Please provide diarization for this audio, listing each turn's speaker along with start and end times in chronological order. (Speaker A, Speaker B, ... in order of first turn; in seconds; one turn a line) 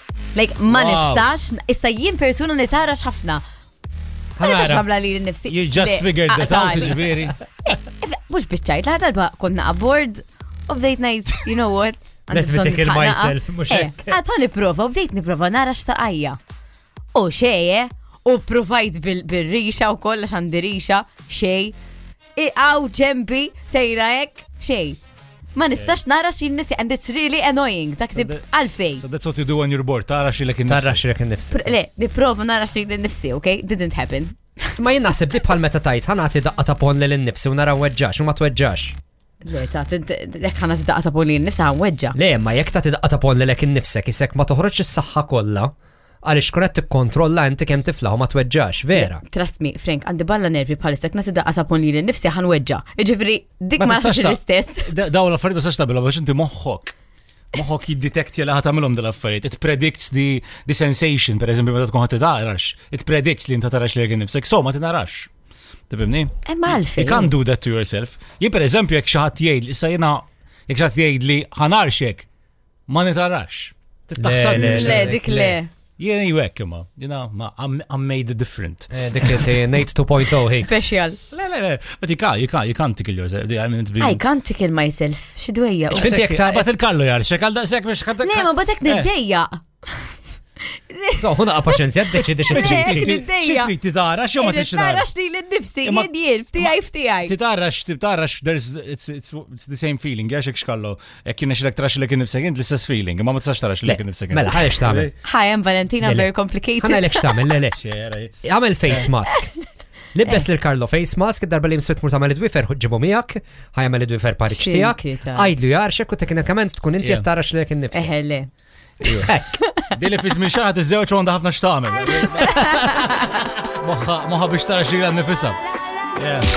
Speaker A: 0.3-3.4
Speaker B: 0.7-1.3
Speaker C: 4.4-4.8
Speaker A: 4.4-7.1
Speaker B: 5.5-7.3
Speaker A: 7.7-16.4
Speaker C: 12.3-14.2
Speaker A: 17.1-21.7
Speaker A: 22.4-25.0
Speaker A: 25.5-29.0
Speaker B: 25.7-26.0
Speaker B: 28.1-28.4
Speaker B: 29.0-31.0
Speaker C: 30.7-31.8
Speaker A: 31.5-34.4
Speaker C: 34.8-39.0
Speaker A: 39.4-42.1
Speaker C: 42.1-45.7
Speaker C: 46.2-49.2
Speaker A: 48.9-54.9
Speaker B: 53.8-56.9
Speaker B: 57.5-65.3
Speaker B: 65.9-72.2
Speaker A: 66.5-67.3
Speaker B: 72.9-79.7
Speaker C: 74.2-75.5
Speaker A: 74.5-75.7
Speaker C: 78.9-80.7
Speaker A: 80.5-81.2
Speaker B: 81.3-84.2
Speaker A: 84.0-86.3
Speaker B: 85.9-89.1
Speaker C: 85.9-86.7
Speaker A: 88.2-91.8
Speaker C: 91.2-93.1
Speaker B: 92.1-95.1
Speaker A: 92.5-93.7
Speaker A: 94.4-97.3
Speaker B: 95.8-96.7
Speaker B: 97.2-105.1
Speaker C: 103.8-105.1
Speaker A: 105.2-107.4
Speaker C: 106.0-107.8
Speaker B: 107.8-108.3
Speaker C: 108.4-109.5
Speaker C: 110.1-118.1
Speaker A: 114.5-115.5
Speaker B: 117.0-117.2
Speaker A: 117.9-118.5
Speaker B: 119.0-119.3
Speaker C: 119.1-119.6
Speaker B: 119.9-125.6
Speaker A: 122.4-123.3
Speaker B: 126.2-126.5